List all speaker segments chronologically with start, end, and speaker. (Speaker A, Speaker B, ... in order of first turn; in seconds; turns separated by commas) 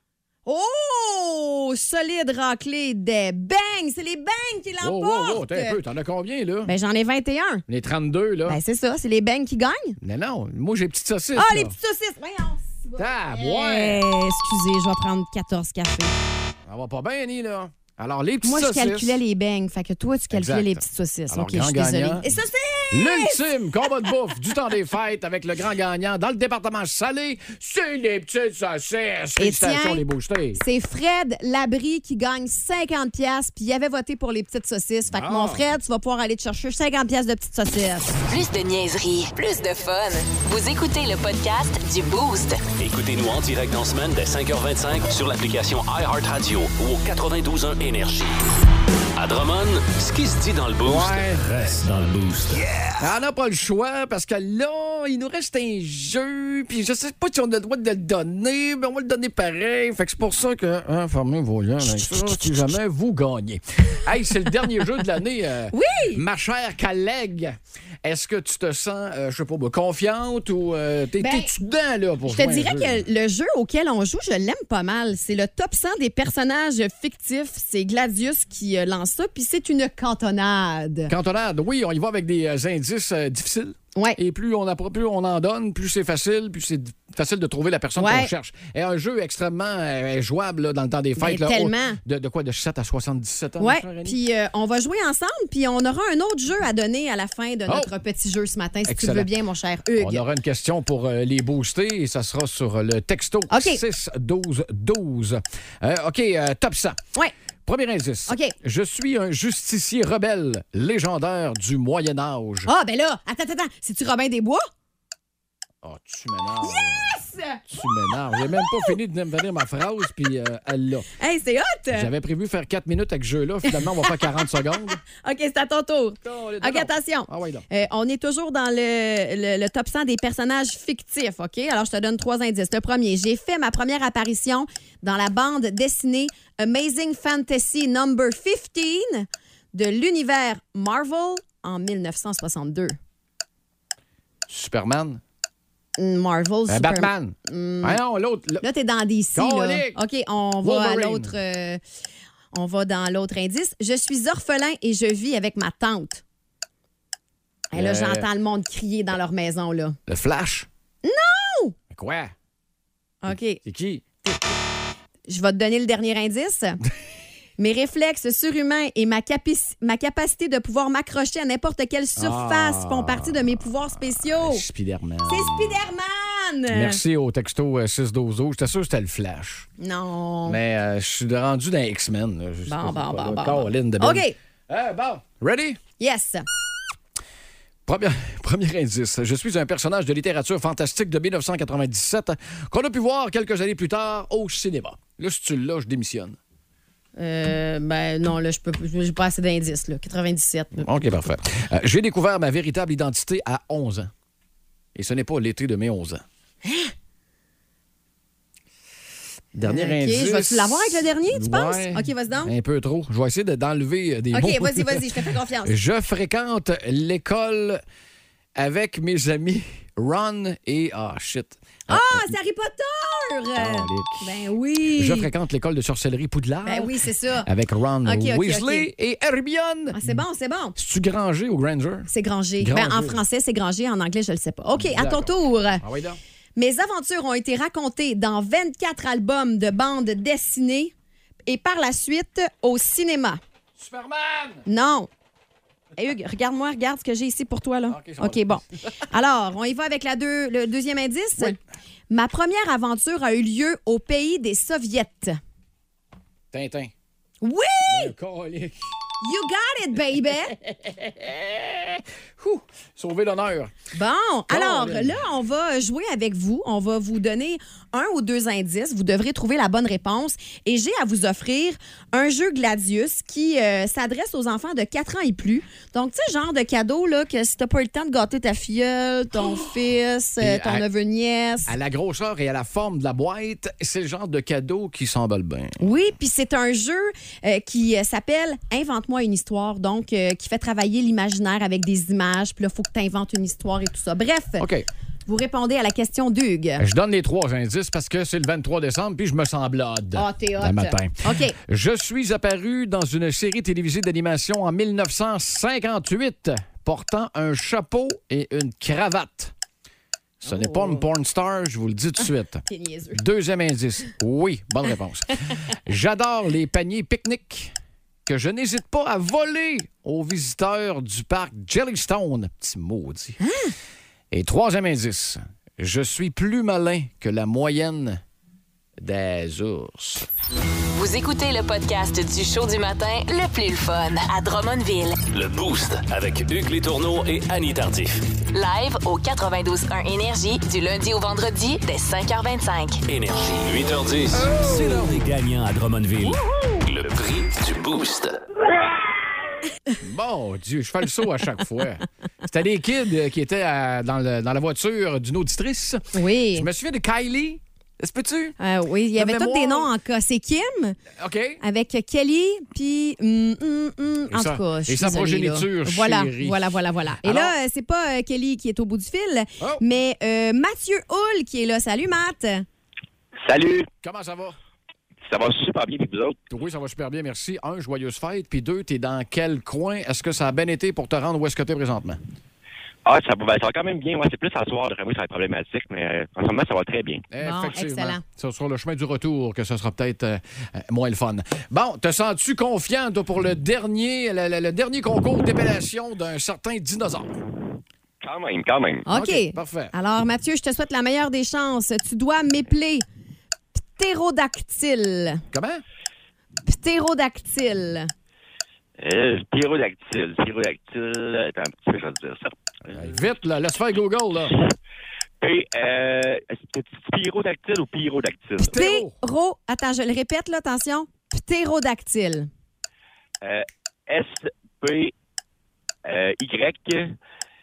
Speaker A: 0.5-5.8, Speaker B: 4.8-6.7, Speaker A: 6.7-7.6, Speaker B: 7.7-8.6, Speaker A: 8.5-10.0, Speaker B: 10.0-11.7, Speaker A: 11.4-16.1, Speaker B: 13.0-14.0, Speaker B: 16.7-19.2, Speaker A: 18.4-24.1, Speaker B: 20.3-22.2, Speaker B: 22.9-30.6, Speaker A: 29.4-30.0, Speaker A: 30.6-38.2, Speaker B: 35.1-35.7, Speaker C: 38.3-42.7, Speaker D: 42.8-48.5, Speaker D: 49.1-53.0, Speaker B: 50.8-51.5, Speaker B: 53.0-73.0, Speaker A: 61.8-62.8, Speaker A: 65.7-66.2, Speaker A: 71.2-71.5, Speaker A: 72.3-81.1, Speaker B: 81.1-94.2, Speaker A: 88.0-88.3, Speaker A: 91.2-92.0, Speaker A: 93.6-100.2, Speaker B: 98.9-99.3, Speaker B: 100.0-107.0, Speaker A: 103.5-103.8, Speaker B: 107.7-112.7, Speaker A: 108.3-108.5, Speaker A: 112.7-114.7, Speaker B: 115.8-117.1, Speaker A: 116.6-119.0, Speaker B: 117.7-121.1, Speaker A: 121.2-122.1, Speaker B: 121.9-125.0, Speaker A: 123.7-124.3, Speaker A: 125.0-143.0, Speaker B: 126.2-127.7, Speaker B: 144.5-145.2, Speaker A: 146.0-148.0, Speaker B: 146.7-148.7, Speaker A: 148.6-151.8, Speaker B: 149.3-150.0, Speaker B: 150.6-151.3, Speaker A: 152.5-156.2, Speaker A: 157.7-160.0, Speaker B: 157.7-158.3, Speaker B: 160.1-160.7, Speaker A: 161.0-161.8, Speaker B: 161.9-162.3, Speaker A: 163.2-163.6, Speaker B: 163.3-164.0, Speaker A: 164.2-164.5, Speaker A: 165.3-166.8, Speaker A: 167.6-174.6, Speaker B: 172.2-173.6, Speaker B: 174.2-175.8, Speaker A: 175.3-177.0, Speaker B: 176.7-179.7, Speaker A: 179.8-180.6, Speaker B: 180.5-185.8, Speaker A: 182.7-184.3, Speaker A: 186.0-186.4, Speaker B: 187.9-196.4, Speaker A: 197.2-200.9, Speaker B: 200.8-204.1, Speaker B: 204.9-206.2, Speaker A: 206.6-206.9, Speaker B: 209.5-215.1, Speaker A: 209.6-212.5, Speaker A: 214.3-215.7, Speaker B: 215.7-217.8, Speaker B: 218.6-222.3, Speaker A: 221.9-225.3, Speaker B: 223.6-224.4, Speaker B: 225.0-230.2, Speaker A: 226.7-227.5, Speaker A: 228.0-228.9, Speaker A: 229.9-230.8, Speaker B: 230.8-232.1, Speaker A: 232.1-235.8, Speaker B: 232.6-233.2, Speaker B: 234.8-236.2, Speaker A: 236.6-240.9, Speaker A: 241.5-243.4, Speaker B: 243.8-244.6, Speaker A: 244.7-245.1, Speaker A: 246.0-251.6, Speaker B: 247.9-248.6, Speaker A: 252.1-255.4, Speaker B: 256.5-256.9, Speaker A: 257.4-258.1, Speaker B: 257.9-258.8, Speaker A: 259.2-260.6, Speaker B: 260.6-263.7, Speaker A: 263.9-281.7, Speaker B: 264.5-265.2, Speaker B: 280.4-280.9, Speaker B: 281.7-285.8, Speaker A: 285.8-294.7, Speaker B: 294.6-294.9, Speaker A: 295.3-296.8, Speaker B: 296.8-309.5, Speaker A: 300.1-301.6, Speaker B: 310.4-312.6, Speaker A: 310.4-311.1, Speaker A: 312.7-313.2, Speaker B: 313.1-317.7, Speaker B: 318.3-323.4, Speaker A: 323.4-323.7, Speaker B: 324.3-328.2, Speaker B: 329.0-330.3, Speaker C: 330.9-335.2, Speaker D: 335.3-338.3, Speaker C: 338.5-343.0, Speaker D: 343.1-348.4, Speaker B: 344.3-345.2, Speaker B: 350.0-358.6, Speaker A: 356.1-356.7, Speaker A: 358.6-361.0, Speaker B: 359.2-359.9, Speaker B: 361.2-361.6, Speaker A: 361.6-372.7, Speaker B: 364.3-367.6, Speaker E: 373.4-373.9, Speaker B: 374.0-374.6, Speaker E: 375.2-376.4, Speaker B: 376.5-382.2, Speaker E: 383.1-387.2, Speaker B: 387.3-397.4, Speaker A: 387.4-388.2, Speaker E: 398.2-399.1, Speaker A: 399.1-403.1, Speaker B: 399.1-399.9, Speaker A: 403.8-405.4, Speaker B: 405.5-405.8, Speaker A: 406.7-408.1, Speaker E: 409.0-413.0, Speaker B: 412.9-414.6, Speaker E: 415.4-418.8, Speaker A: 418.6-422.5, Speaker B: 418.7-419.1, Speaker E: 423.4-425.1, Speaker E: 426.1-427.2